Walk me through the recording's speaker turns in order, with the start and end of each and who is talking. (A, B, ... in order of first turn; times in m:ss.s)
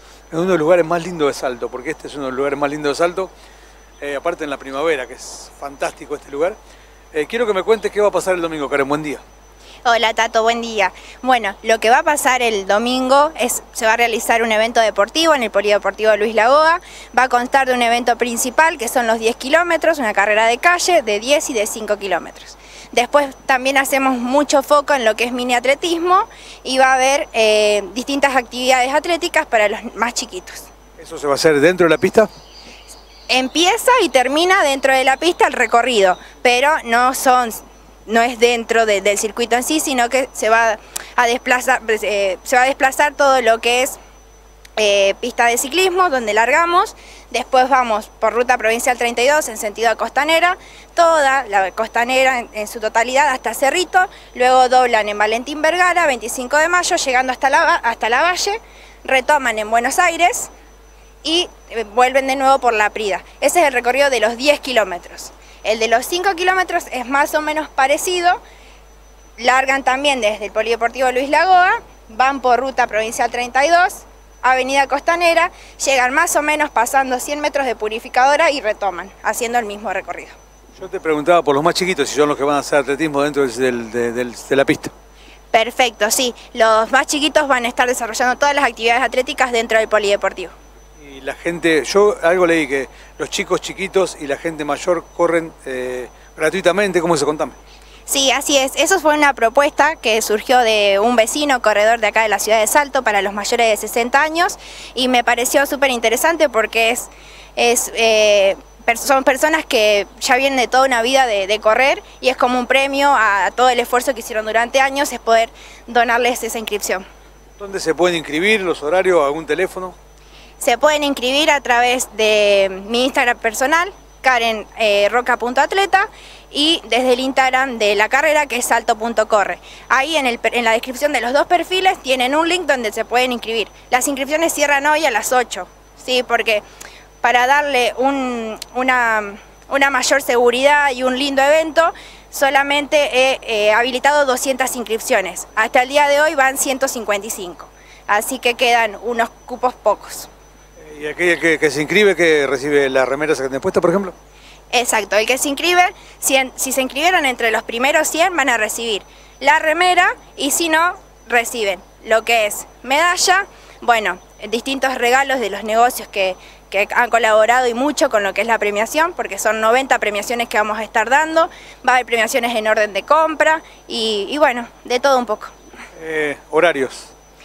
0:00.3-0:03.3 A
0:04.0-0:06.6 A
0:07.1-0:09.2 A
0:09.8-0:30.7 B
0:31.0-0:32.3 A
0:33.3-0:44.0 B
0:44.8-1:00.5 B
1:01.2-1:08.4 B
1:09.4-1:20.3 B
1:20.8-1:24.9 A
1:25.5-1:30.5 B
1:31.0-1:37.6 A
1:38.1-1:57.0 B
1:57.6-2:00.0 A
2:00.6-2:16.6 B
2:17.2-2:30.3 B
2:30.8-2:34.1 A
2:34.7-2:55.5 B
2:56.0-2:57.1 A